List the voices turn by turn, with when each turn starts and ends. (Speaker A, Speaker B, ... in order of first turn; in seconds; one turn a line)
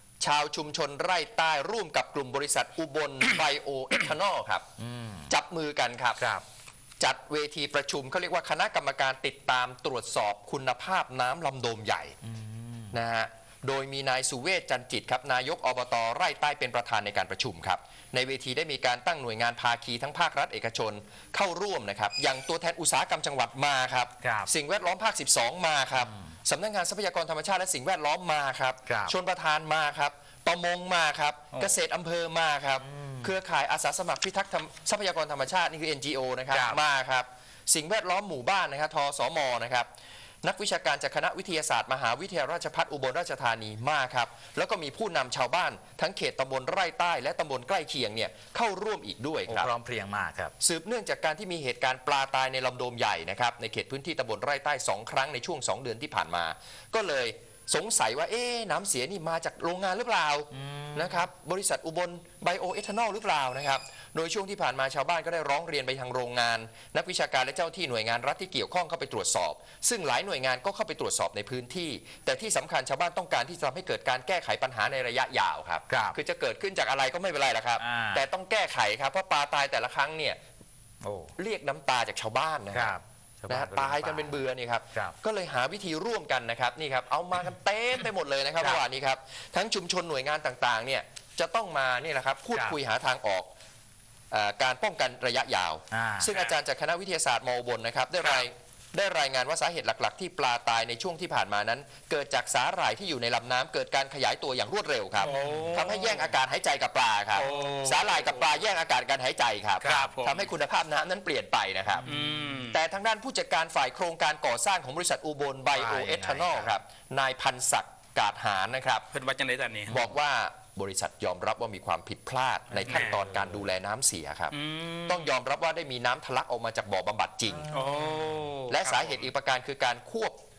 Speaker A: 0.2-4.7
Speaker B: 4.8-5.3
Speaker A: 5.3-6.2
Speaker B: 6.2-6.4
Speaker A: 7.0-12.2
Speaker B: 12.2-13.0
Speaker A: 12.9-39.9
Speaker B: 24.2-24.5
Speaker B: 26.0-26.3
Speaker B: 28.9-29.1
Speaker B: 32.8-33.3
Speaker B: 36.5-36.8
Speaker A: 40.4-49.7
Speaker B: 49.5-50.5
Speaker A: 50.6-80.4
Speaker B: 60.5-61.3
Speaker B: 75.9-76.2
Speaker B: 77.8-78.2
Speaker B: 81.0-81.3
Speaker A: 81.4-83.0
Speaker B: 82.7-84.4
Speaker A: 83.5-93.5
Speaker A: 94.3-112.1
Speaker B: 95.9-96.3
Speaker B: 105.2-106.0
Speaker C: 105.2-106.3
Speaker C: 107.3-108.5
Speaker B: 109.8-110.1
Speaker C: 109.8-110.5
Speaker B: 111.9-112.5
Speaker C: 112.0-112.8
Speaker A: 112.7-119.1
Speaker B: 115.7-116.7
Speaker C: 119.1-119.9
Speaker B: 119.9-120.1
Speaker A: 119.9-124.5
Speaker B: 122.7-123.7
Speaker C: 122.9-123.2
Speaker C: 124.5-125.3
Speaker A: 125.1-127.7
Speaker B: 127.7-128.4
Speaker C: 127.7-129.3
Speaker A: 128.7-130.4